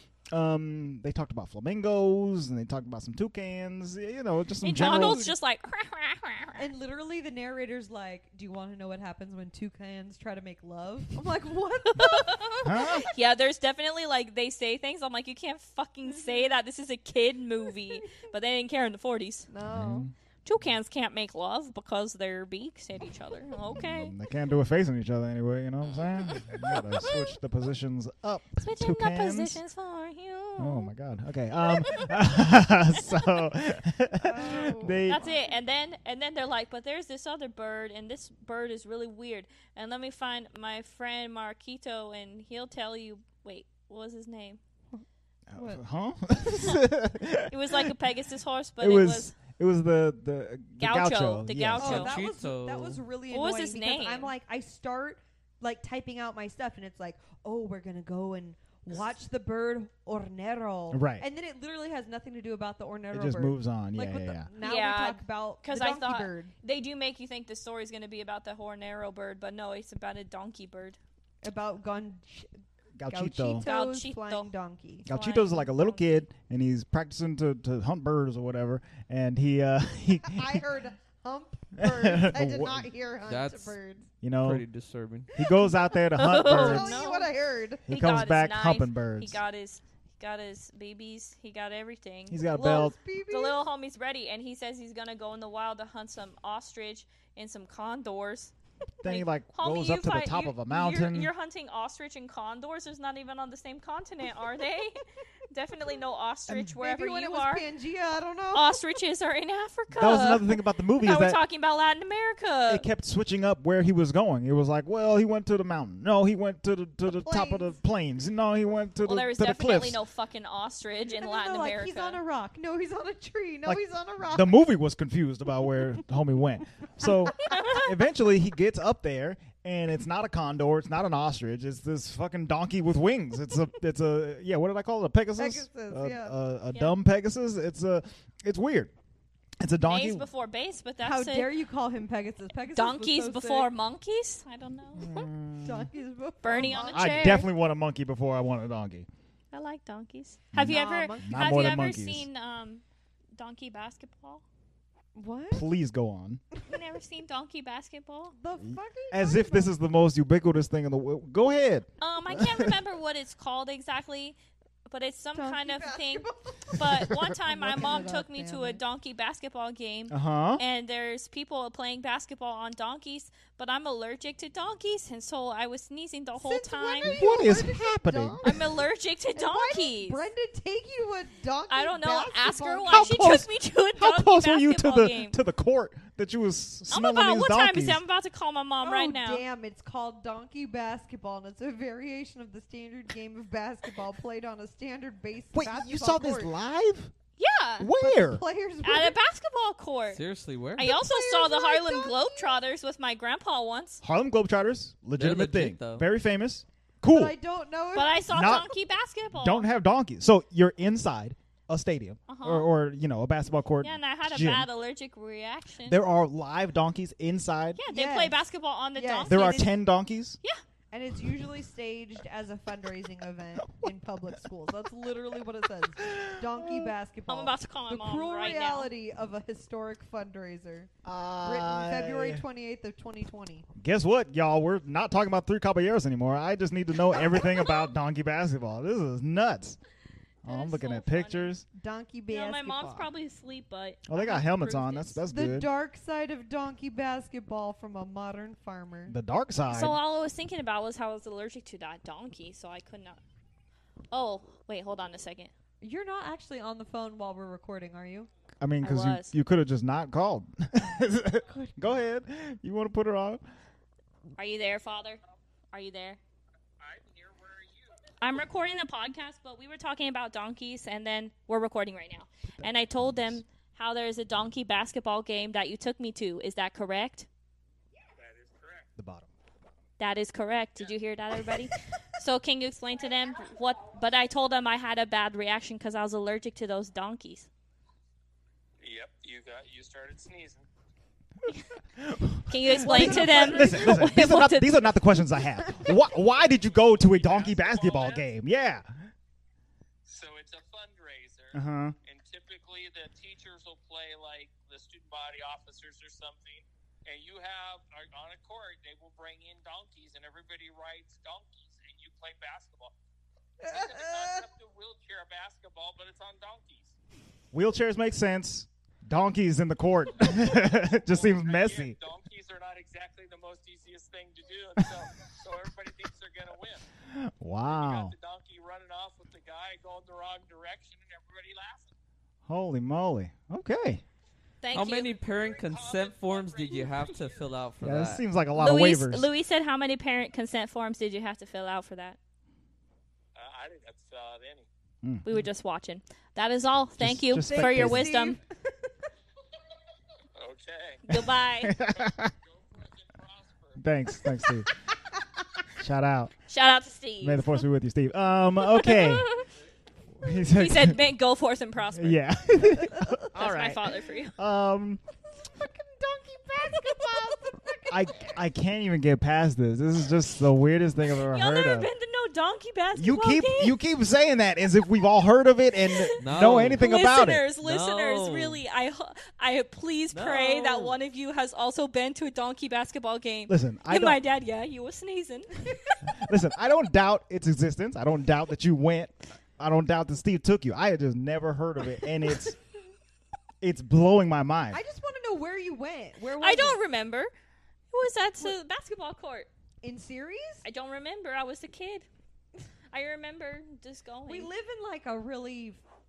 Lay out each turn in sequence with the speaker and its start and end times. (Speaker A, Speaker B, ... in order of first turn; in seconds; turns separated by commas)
Speaker A: 0.3-5.2, Speaker B: 4.6-6.7, Speaker C: 4.7-5.3, Speaker C: 6.6-12.6, Speaker B: 11.9-19.5, Speaker A: 12.6-13.0, Speaker C: 19.5-20.1, Speaker A: 19.7-20.1, Speaker B: 20.4-24.1, Speaker A: 23.6-29.6, Speaker B: 26.2-27.3, Speaker B: 28.6-30.9, Speaker A: 30.6-35.2, Speaker B: 31.6-32.4, Speaker B: 33.0-33.4, Speaker C: 34.2-35.1, Speaker B: 35.0-44.6, Speaker A: 45.5-47.9, Speaker C: 45.5-45.8, Speaker B: 47.5-49.4, Speaker A: 48.8-52.0, Speaker B: 50.8-52.2, Speaker C: 51.8-66.5, Speaker D: 51.8-53.0, Speaker B: 53.3-54.3, Speaker A: 60.9-61.2, Speaker A: 63.1-64.5, Speaker B: 64.6-71.0, Speaker C: 71.4-72.5, Speaker A: 73.0-73.6, Speaker C: 73.1-75.1, Speaker B: 73.5-74.5, Speaker A: 75.0-80.6, Speaker B: 75.1-76.1, Speaker C: 80.3-84.1, Speaker A: 81.8-82.9, Speaker D: 83.2-83.8, Speaker A: 84.2-84.6, Speaker D: 84.4-85.3, Speaker A: 85.3-87.0, Speaker B: 86.1-87.3, Speaker C: 86.2-87.8, Speaker A: 87.9-89.4, Speaker B: 87.9-107.6, Speaker A: 92.3-93.0, Speaker C: 92.6-93.6, Speaker A: 99.0-101.3, Speaker C: 106.5-108.8, Speaker B: 108.5-112.8, Speaker A: 109.9-111.4, Speaker A: 112.7-120.0, Speaker C: 117.1-117.7, Speaker B: 119.0-122.2, Speaker C: 121.1-124.5, Speaker A: 123.6-138.9, Speaker B: 127.5-127.8, Speaker C: 135.4-136.3, Speaker A: 139.6-140.2, Speaker B: 139.8-141.5, Speaker C: 141.0-143.7, Speaker B: 142.7-145.3, Speaker A: 144.9-145.9, Speaker C: 145.6-147.4, Speaker B: 146.4-147.5, Speaker A: 146.5-149.1, Speaker B: 149.5-152.8, Speaker A: 150.5-152.3, Speaker C: 150.6-151.5, Speaker B: 153.3-154.4, Speaker C: 155.1-155.7, Speaker A: 155.5-156.4, Speaker B: 156.7-158.3, Speaker C: 158.3-159.7, Speaker A: 158.6-162.7, Speaker B: 162.0-164.3, Speaker B: 164.9-177.2, Speaker C: 165.3-168.8, Speaker A: 170.1-170.6, Speaker C: 176.4-178.7, Speaker A: 177.0-178.6, Speaker B: 178.4-180.2, Speaker C: 179.3-183.2, Speaker B: 181.7-185.4, Speaker A: 182.9-188.0, Speaker B: 186.9-189.4, Speaker C: 188.8-196.5, Speaker A: 195.5-197.1, Speaker B: 197.4-197.9, Speaker A: 197.8-198.4, Speaker C: 198.0-199.1, Speaker B: 198.8-200.2, Speaker D: 200.1-200.9, Speaker B: 200.8-204.0, Speaker C: 200.8-202.6, Speaker A: 204.0-207.3, Speaker D: 205.1-206.1, Speaker C: 207.0-208.2, Speaker B: 207.9-209.7, Speaker A: 208.3-208.7, Speaker A: 209.3-214.7, Speaker B: 212.3-212.7, Speaker B: 213.8-216.0, Speaker A: 215.8-217.8, Speaker B: 217.8-219.7, Speaker C: 217.9-218.4, Speaker C: 218.9-219.7, Speaker A: 219.3-220.4, Speaker C: 220.9-230.9, Speaker A: 226.0-226.9, Speaker B: 227.3-228.9, Speaker A: 231.0-232.4, Speaker C: 231.4-233.7, Speaker A: 233.7-239.8, Speaker A: 240.4-241.6, Speaker B: 240.4-241.5, Speaker C: 241.7-243.1, Speaker B: 242.3-245.2, Speaker A: 244.1-245.7, Speaker C: 245.3-249.1, Speaker A: 249.1-250.0, Speaker B: 249.7-253.2, Speaker B: 254.1-255.5, Speaker C: 255.8-258.3, Speaker A: 258.6-263.4, Speaker B: 258.8-259.3, Speaker C: 261.5-261.7, Speaker B: 264.4-265.2, Speaker B: 265.7-266.2, Speaker E: 266.8-267.9, Speaker B: 268.2-277.3, Speaker A: 272.6-273.4, Speaker E: 278.2-278.9, Speaker A: 279.0-279.3, Speaker B: 280.0-287.5, Speaker E: 288.8-290.6, Speaker A: 292.0-299.1, Speaker B: 292.5-294.7, Speaker C: 292.8-293.9, Speaker E: 296.9-298.2, Speaker E: 300.1-312.9, Speaker A: 301.5-301.9, Speaker E: 313.6-316.9, Speaker C: 313.6-314.2, Speaker A: 317.5-322.0, Speaker E: 320.2-326.8, Speaker A: 327.1-328.1, Speaker E: 327.6-331.9, Speaker A: 332.5-334.0, Speaker B: 334.6-335.2, Speaker D: 334.7-338.2, Speaker E: 335.2-337.5, Speaker A: 337.8-339.3, Speaker B: 338.5-342.2, Speaker E: 343.3-344.7, Speaker A: 345.0-345.4, Speaker B: 345.2-348.4, Speaker A: 347.0-348.2, Speaker C: 347.5-348.5, Speaker E: 350.4-351.0, Speaker B: 351.1-351.8, Speaker A: 351.6-352.3, Speaker E: 351.9-353.8, Speaker A: 353.8-354.7, Speaker A: 355.8-356.3, Speaker B: 356.5-357.5, Speaker A: 357.2-359.3, Speaker B: 358.7-359.5, Speaker A: 360.2-361.0, Speaker B: 360.3-362.2, Speaker A: 361.9-365.0, Speaker B: 363.3-364.4, Speaker C: 365.5-368.3, Speaker A: 366.9-367.3, Speaker A: 367.9-371.9, Speaker B: 371.2-373.8, Speaker A: 372.9-377.4, Speaker B: 375.8-386.1, Speaker D: 376.2-376.9, Speaker D: 377.6-378.6, Speaker D: 380.1-381.0, Speaker A: 383.5-384.2, Speaker A: 386.1-392.6, Speaker A: 393.6-394.8, Speaker C: 394.7-396.8, Speaker B: 396.4-397.3, Speaker B: 397.9-399.5, Speaker C: 399.8-400.6, Speaker B: 400.6-402.1, Speaker B: 402.9-404.5, Speaker C: 404.3-405.8